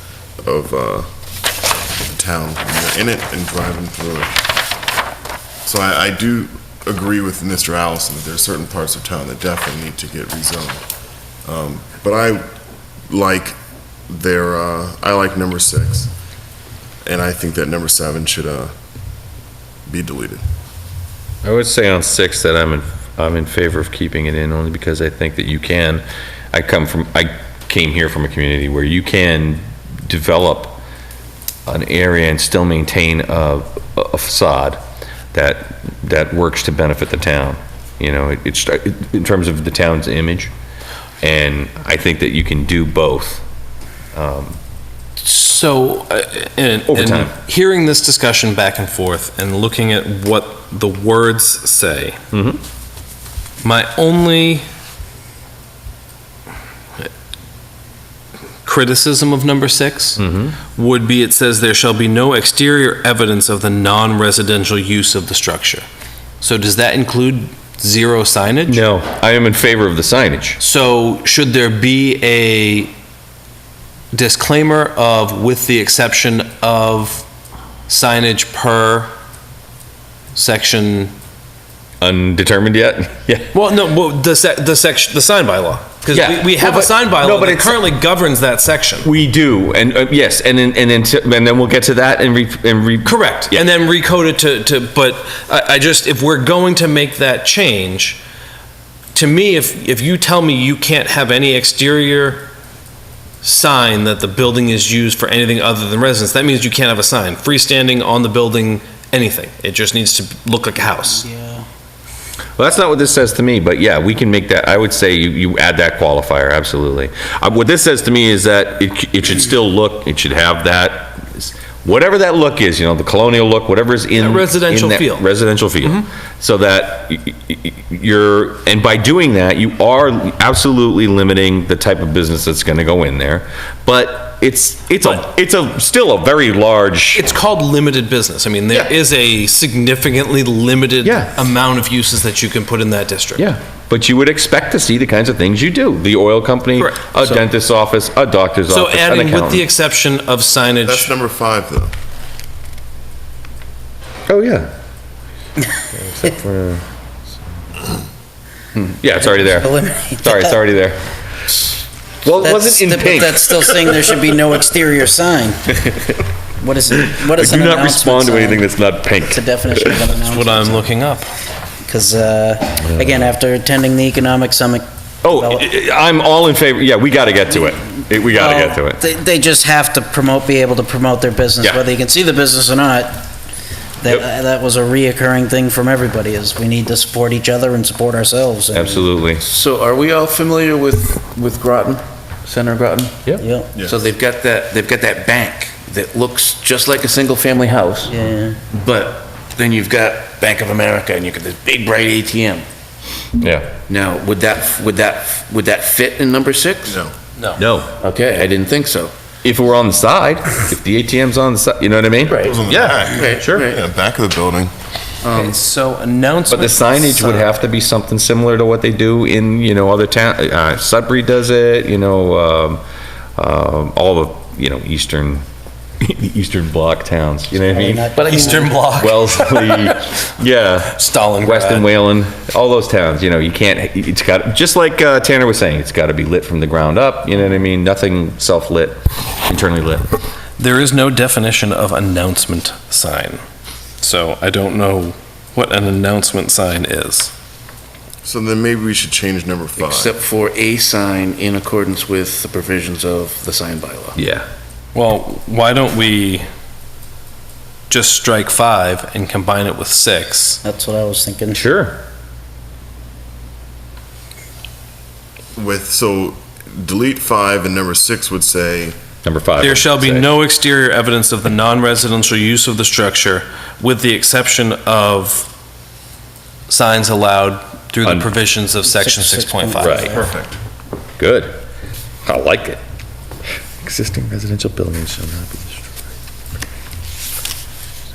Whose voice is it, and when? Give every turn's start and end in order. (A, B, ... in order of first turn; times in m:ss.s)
0:00.4-0:01.1 A
0:02.0-0:04.4 A
0:05.6-0:10.8 A
0:11.4-0:12.4 A
0:13.1-0:13.6 A
0:14.1-0:16.1 A
0:17.0-0:18.7 A
0:19.9-0:20.4 A
0:21.4-0:30.8 B
0:31.7-0:34.8 B
0:35.3-0:40.5 B
0:41.2-0:43.4 B
0:44.1-0:44.6 B
0:45.2-0:52.2 C
0:46.9-0:47.3 B
0:52.3-0:52.6 B
0:53.6-0:54.7 C
0:58.6-1:00.2 C
1:00.2-1:00.6 B
1:00.7-1:05.8 C
1:06.4-1:08.9 C
1:08.7-1:10.6 B
1:10.6-1:12.9 C
1:14.1-1:17.3 C
1:17.9-1:19.1 C
1:20.4-1:21.1 C
1:22.0-1:23.5 B
1:23.5-1:29.1 C
1:26.1-1:27.8 B
1:29.0-1:33.6 B
1:33.0-1:38.2 C
1:39.1-1:42.5 C
1:43.4-1:51.2 C
1:51.0-1:51.6 D
1:52.6-2:17.2 B
2:04.2-2:05.3 C
2:17.1-2:23.5 C
2:21.0-2:21.5 B
2:23.4-2:29.6 B
2:26.8-2:27.4 C
2:28.7-2:31.1 C
2:30.8-2:31.9 A
2:34.3-2:34.7 B
2:35.8-2:36.8 B
2:38.9-2:41.0 B
2:39.2-2:40.6 D
2:42.2-2:44.0 B
2:42.4-2:45.7 D
2:46.6-2:48.7 D
2:46.9-2:50.1 B
2:49.2-2:50.9 D
2:50.2-2:51.3 C
2:51.8-2:55.7 D
2:52.8-2:53.3 B
2:55.2-2:59.0 B
2:58.2-3:03.3 D
3:04.0-3:09.1 D
3:08.7-3:09.4 B
3:09.4-3:13.3 E
3:13.4-3:13.8 D
3:13.8-3:14.1 A
3:13.8-3:18.1 E
3:18.1-3:18.6 D
3:18.7-3:22.7 E
3:23.4-3:23.7 B
3:23.9-3:27.0 E
3:26.9-3:27.1 A
3:27.4-3:27.6 C
3:27.6-3:27.9 B
3:28.0-3:29.1 E
3:29.4-3:33.6 B
3:32.3-3:34.7 A
3:32.7-3:33.0 C
3:33.2-3:33.8 E
3:35.2-3:35.6 E
3:35.3-3:37.5 C
3:36.5-3:42.8 B
3:43.4-3:45.4 B
3:46.0-4:00.2 B
3:47.6-3:48.8 D
3:48.2-3:50.1 C
3:50.9-3:51.9 C
4:00.6-4:03.4 C
4:04.0-4:07.3 C
4:08.2-4:10.2 A
4:09.8-4:14.2 E
4:14.2-4:14.5 B
4:14.9-4:16.5 C
4:17.9-4:20.6 C
4:20.6-4:21.7 D
4:21.5-4:22.0 B
4:25.6-4:29.0 A
4:29.2-4:30.3 B
4:29.6-4:35.5 C
4:36.7-4:40.2 C
4:38.8-4:40.3 D
4:39.8-4:40.2 B
4:40.1-4:40.6 A
4:41.2-4:41.6 B
4:42.3-4:42.8 B
4:43.8-4:45.8 B